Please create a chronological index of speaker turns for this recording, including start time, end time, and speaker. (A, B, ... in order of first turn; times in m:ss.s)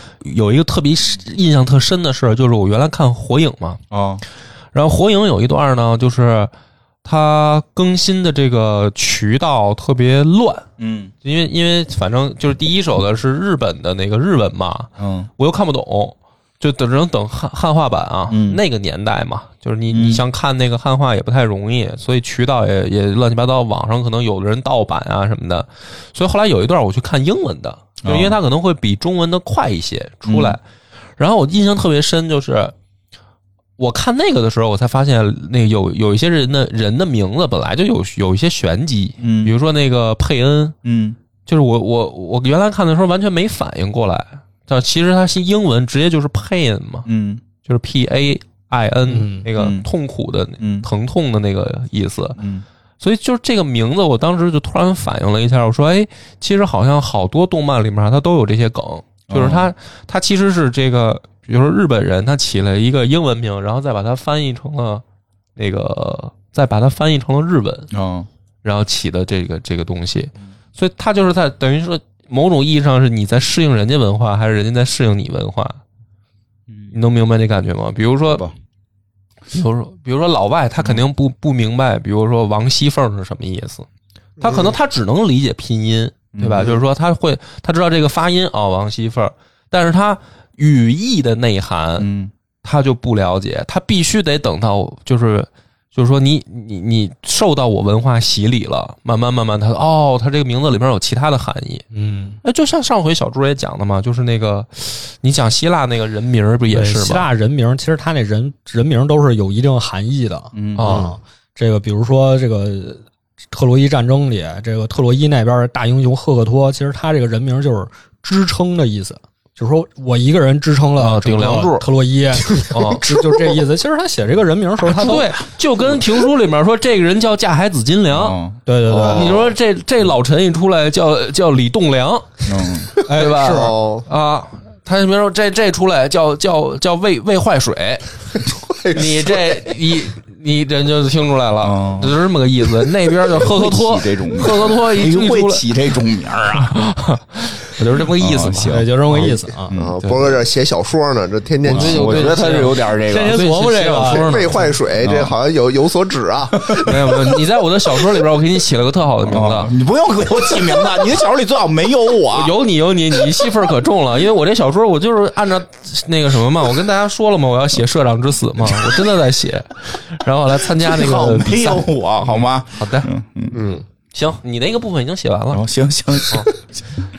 0:00.2-0:03.8 A
0:03.9-0:04.2 B
0:04.7-0:06.5 A
0:07.0-0:10.6 A
0:10.8-0:11.1 B
0:11.2-0:30.6 A
0:15.0-0:15.3 B
0:18.3-0:18.6 B
0:19.9-0:20.2 B
0:28.0-0:28.4 B
0:30.2-0:30.6 B
0:31.2-0:32.7 A
0:33.8-0:40.7 A
0:39.2-0:39.5 B
0:40.8-0:41.2 B
0:41.4-0:47.0 A
0:47.0-0:47.4 B
0:47.6-0:52.4 A
0:49.1-0:49.4 C
0:49.5-0:49.8 B
0:50.6-0:50.9 B
0:52.4-0:52.6 B
0:53.0-1:05.0 A
0:59.3-0:59.7 B
1:05.6-1:07.9 A
1:07.9-1:08.3 B
1:08.6-1:15.8 A
1:16.9-1:18.4 A
1:19.5-1:23.8 A
1:24.4-1:24.8 D
1:24.4-1:32.1 A
1:26.3-1:26.8 B
1:32.0-1:32.3 B
1:32.6-1:41.8 A
1:41.9-1:42.4 C
1:42.4-1:47.3 A
1:46.7-2:05.2 C
1:50.5-1:51.1 B
1:50.8-1:51.2 A
2:01.0-2:01.8 A
2:02.7-2:03.0 A
2:03.2-2:03.4 D
2:04.8-2:05.5 B
2:04.9-2:08.4 A
2:08.1-2:08.6 B
2:08.6-2:09.4 C
2:08.9-2:09.5 D
2:08.9-2:18.2 A
2:12.4-2:12.9 B
2:13.0-2:14.0 D
2:13.1-2:13.7 C
2:18.6-2:19.7 D
2:18.9-2:25.7 A
2:21.6-2:22.2 B
2:23.3-2:26.8 B
2:26.5-2:28.8 A
2:28.2-2:29.9 B
2:28.7-2:29.8 C
2:29.7-2:32.3 D
2:30.0-2:30.4 A
2:31.7-2:34.7 A
2:31.7-2:33.4 B
2:33.0-2:34.6 C
2:34.1-2:37.4 D
2:35.0-2:35.3 B
2:36.6-2:37.0 B
2:36.7-2:39.7 A
2:39.2-2:42.5 B
2:40.6-2:41.0 A
2:42.3-2:53.1 A
2:50.6-2:53.6 B
2:53.5-2:53.8 D
2:54.1-2:55.6 A
2:55.5-2:56.5 B